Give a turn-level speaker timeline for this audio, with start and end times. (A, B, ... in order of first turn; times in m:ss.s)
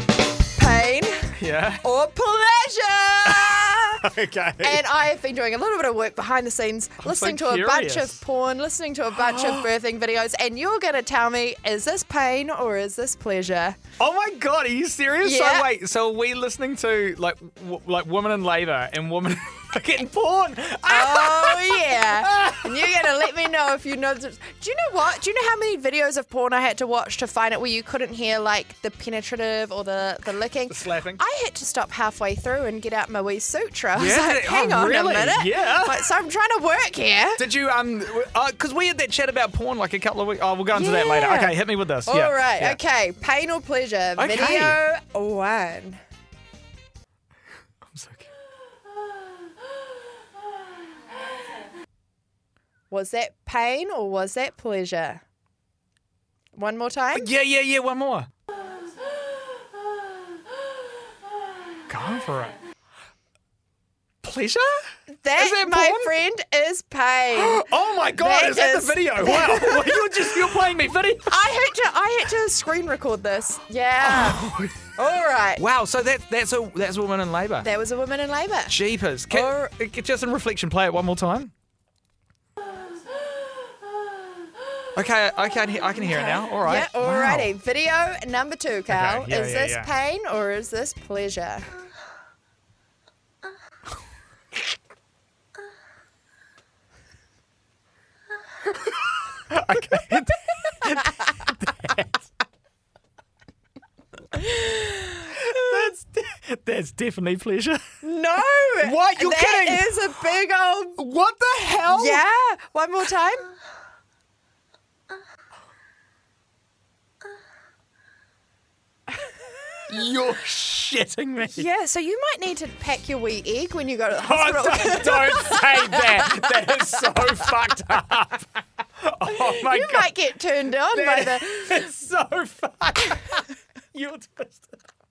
0:00.6-0:04.1 A
0:01.4-0:01.8 B
0:03.2-0:04.8 B
0:04.6-0:13.8 A
0:07.0-0:08.2 B
0:09.1-0:09.7 B
0:14.0-0:22.9 B
0:15.2-0:15.7 A
0:20.9-0:37.4 A
0:30.7-0:31.2 B
0:33.9-0:36.1 B
0:37.4-0:42.8 B
0:40.7-0:46.0 A
0:44.2-0:44.8 B
0:47.8-0:48.3 B
0:52.9-0:55.2 A
0:56.5-0:57.3 A
0:57.1-0:58.3 B
1:01.9-1:02.6 B
1:04.2-1:04.9 B
1:05.2-1:07.6 A
1:05.4-1:06.1 B
1:07.3-1:11.4 B
1:08.2-1:10.4 A
1:11.3-1:14.4 A
1:14.0-1:14.9 B
1:15.0-1:15.6 A
1:15.6-1:17.7 B
1:17.6-1:18.8 A
1:18.7-1:21.5 B
1:19.3-1:19.7 A
1:24.9-1:27.5 B
1:26.0-1:31.7 A
1:28.9-1:29.9 B
1:39.5-1:42.2 B
1:44.4-1:45.9 A
1:45.3-1:47.8 B
1:48.0-1:51.0 A
1:48.8-1:50.1 B
1:51.0-1:52.2 B
1:51.9-1:53.4 A
1:59.9-2:01.7 B
2:01.5-2:06.9 A
2:04.2-2:10.1 B
2:09.3-2:11.9 A
2:10.9-2:14.8 B